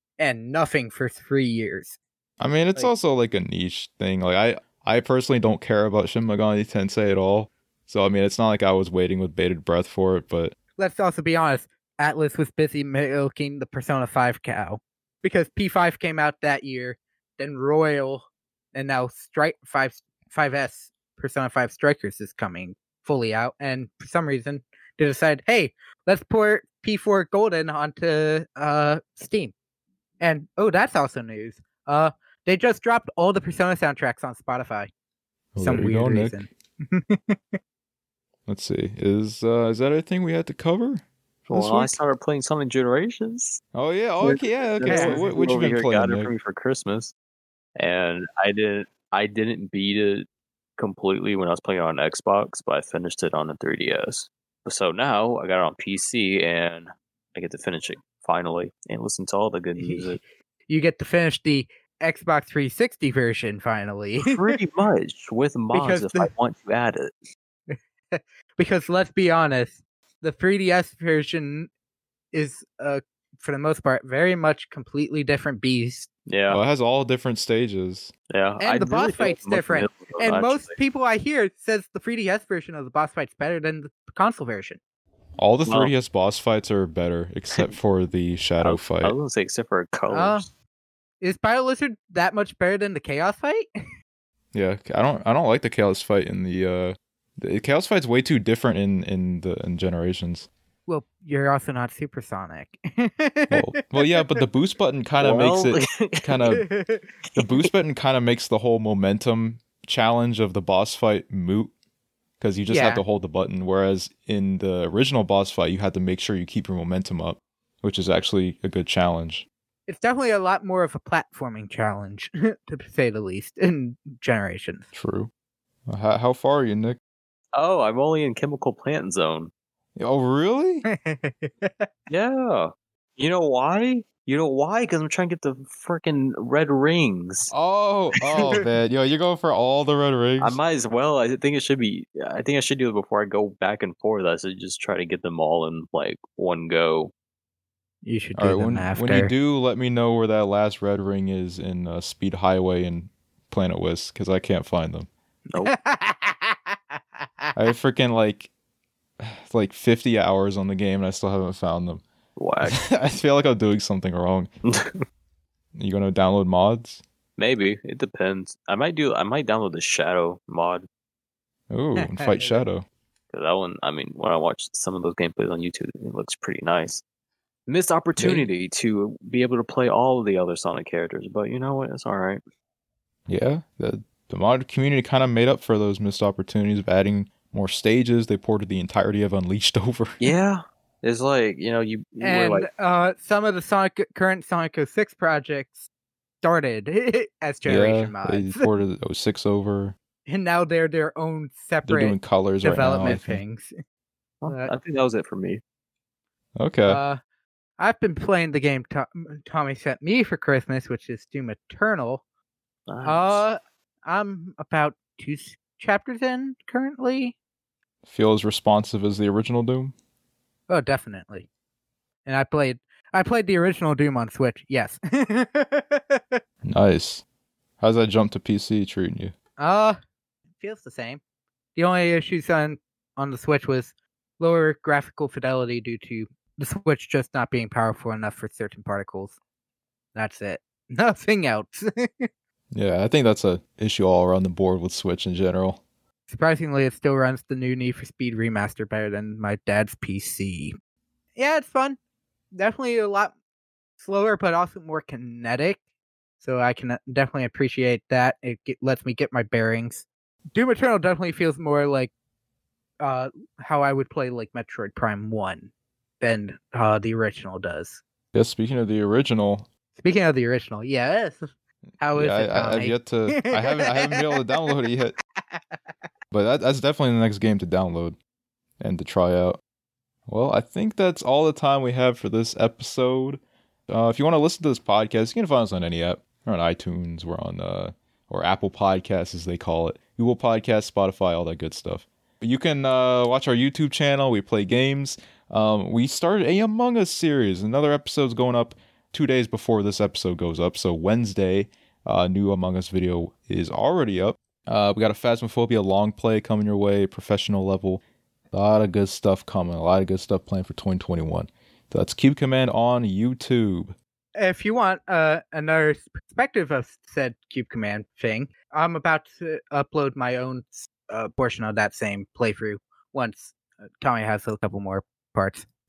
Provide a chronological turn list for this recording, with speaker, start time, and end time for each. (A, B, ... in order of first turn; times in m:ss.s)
0:00.2-0:02.0 A
0:02.4-0:10.5 B
0:10.8-0:29.5 A
0:30.2-0:34.9 A
0:35.5-0:36.4 B
0:35.6-0:37.6 A
0:38.5-0:42.0 B
0:41.5-0:43.6 C
0:43.7-0:46.3 B
0:44.2-0:47.1 C
0:44.8-0:45.3 A
0:47.8-0:50.2 C
0:50.8-1:00.2 C
0:59.8-1:04.5 A
1:04.2-1:07.1 C
1:05.7-1:06.3 A
1:07.7-1:11.7 A
1:12.3-1:16.1 A
1:16.3-1:16.6 C
1:16.5-1:18.1 B
1:18.3-1:20.7 C
1:18.6-1:24.8 A
1:25.4-1:29.2 B
1:25.7-1:25.9 C
1:28.6-1:30.5 C
1:30.1-1:30.4 A
1:31.2-1:33.7 A
1:34.5-1:40.5 B
1:40.9-1:43.8 A
1:43.5-1:46.6 B
1:45.2-1:46.4 C
1:46.5-1:47.1 A
1:47.3-1:47.6 C
1:47.4-1:51.7 B
1:52.4-1:59.4 B
1:52.7-1:53.0 A
1:59.9-2:04.9 A
2:04.9-2:05.3 B
2:05.9-2:07.0 B
2:07.5-2:09.5 C
2:10.0-2:10.8 B
2:10.9-2:11.9 A
2:12.1-2:17.5 C
2:17.5-2:20.6 B
2:20.4-2:27.1 C
2:28.0-2:29.3 A
2:28.4-2:35.1 B
2:35.6-2:37.5 A
2:37.5-2:38.5 B
2:39.2-2:42.0 B
2:42.4-2:42.9 C
2:42.6-2:44.5 B
2:44.6-2:45.0 C
2:45.7-2:47.0 B
2:47.4-2:50.9 C
2:51.7-2:52.8 B
2:52.0-2:52.6 A
2:53.3-2:57.0 C
2:57.7-3:02.4 C
2:58.2-2:58.5 B
3:03.3-3:10.3 B
3:10.2-3:12.7 C
3:12.2-3:15.8 A
3:16.4-3:18.7 A
3:17.6-3:20.0 B
3:20.3-3:23.7 A
3:21.8-3:23.4 B
3:24.4-3:25.6 C
3:26.6-3:27.0 B
3:26.8-3:27.2 A
3:27.8-3:32.2 A
3:32.9-3:33.4 C
3:33.0-3:37.3 A
3:38.0-3:39.9 B
3:40.7-3:41.5 A
3:42.2-3:46.4 A
3:46.6-3:47.2 B
3:47.8-3:49.3 B
3:49.6-3:50.0 A
3:50.6-3:51.2 A
3:51.8-3:59.4 A
4:00.1-4:02.3 A
4:02.7-4:05.8 B
4:06.3-4:10.8 A
4:11.4-4:12.0 A
4:12.5-4:13.3 A
4:14.0-4:15.8 A
4:16.4-4:22.1 A
4:23.0-4:28.0 A
4:28.3-4:29.7 B
4:30.0-4:31.5 A
4:32.0-4:34.7 A
4:32.1-4:35.2 B
4:36.3-4:38.2 B
4:38.8-4:39.6 B
4:40.3-5:13.9 B
5:14.4-5:25.6 A